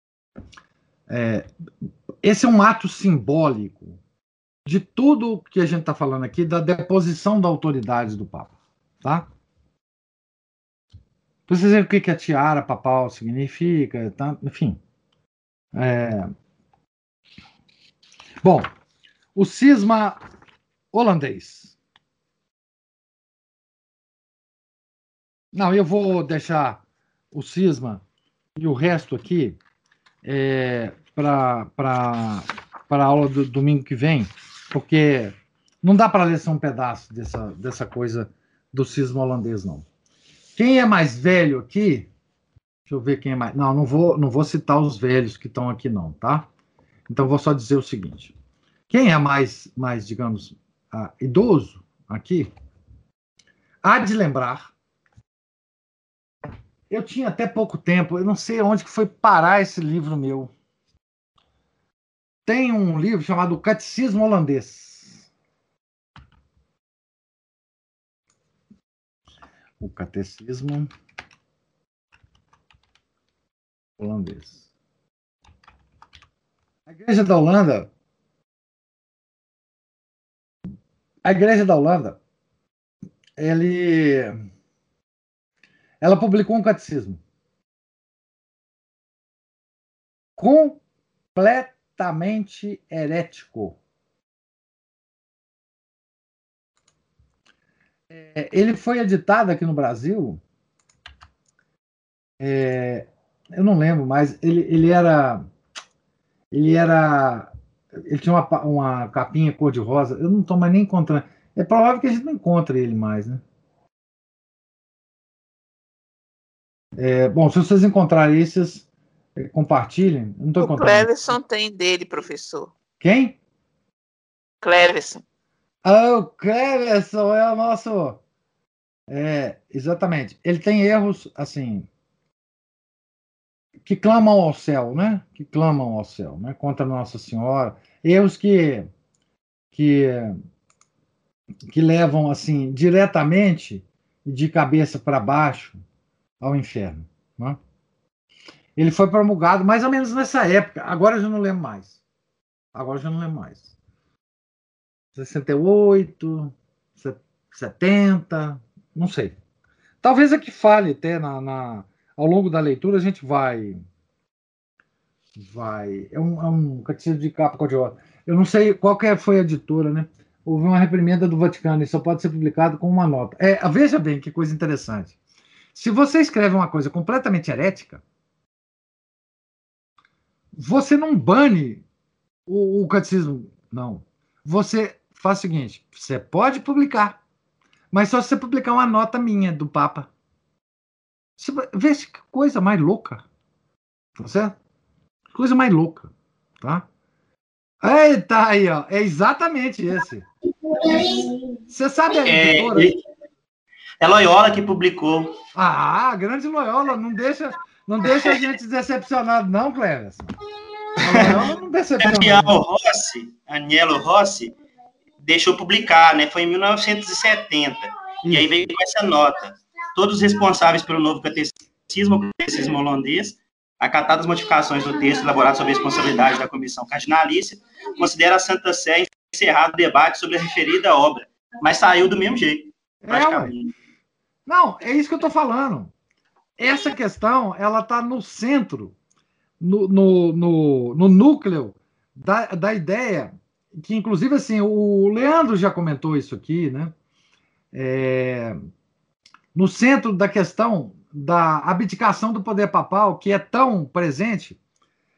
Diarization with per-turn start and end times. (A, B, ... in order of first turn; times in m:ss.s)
0:01.1-0:01.5 A
0:02.2-0:04.0 A
0:04.7-0:09.3 A
0:11.5-0:14.8 A
0:15.7-0:16.3 A
0:18.4-0:18.7 A
0:19.4-0:20.2 A
0:20.9-0:21.8 A
0:25.5-0:26.8 A
0:27.3-0:28.0 A
0:28.6-0:29.6 A
0:30.2-0:39.9 A
0:40.6-0:42.1 A
0:42.9-0:46.5 A
0:47.1-0:48.3 A
0:48.9-0:52.5 A
0:53.8-0:54.7 A
0:56.9-1:00.5 A
1:02.5-1:05.3 A
1:09.8-1:10.9 A
1:14.0-1:14.7 A
1:16.9-1:17.9 A
1:21.2-1:22.2 A
1:23.4-1:24.4 A
1:26.0-1:27.2 A
1:30.4-1:30.8 A
1:31.4-1:33.8 A
1:38.1-1:40.4 A
1:42.4-1:45.4 A
1:46.5-1:47.5 A
1:48.0-1:53.4 A
1:57.0-2:01.1 A
2:00.6-2:02.7 B
2:03.0-2:03.4 A
2:04.6-2:05.2 B
2:05.8-2:08.2 A
2:09.1-2:11.9 A
2:13.9-2:18.9 A
2:19.7-2:20.4 A
2:21.7-2:25.8 A
2:26.4-2:27.6 A
2:28.8-2:32.0 A
2:32.7-2:33.7 A
2:35.2-2:39.4 A
2:40.0-2:43.8 A
2:45.4-2:55.2 A
2:55.7-2:58.0 A
3:00.5-3:01.8 A
3:02.5-3:07.2 A
3:07.9-3:10.1 A
3:11.4-3:13.2 A
3:14.2-3:14.6 A
3:15.3-3:16.1 A
3:16.6-3:16.9 A
3:17.8-3:20.3 A
3:20.8-3:21.2 C
3:21.7-3:22.9 A
3:22.2-3:23.0 C
3:24.0-3:25.4 C
3:25.6-3:30.3 A
3:31.0-3:32.6 A
3:31.0-3:31.4 C
3:32.0-3:34.5 C
3:35.2-3:53.7 C
3:38.2-3:38.7 A
3:53.0-3:53.5 A
3:54.5-3:55.9 A
3:56.6-3:59.0 A
3:59.6-4:06.9 A
4:07.7-4:08.6 A
4:09.5-4:14.6 A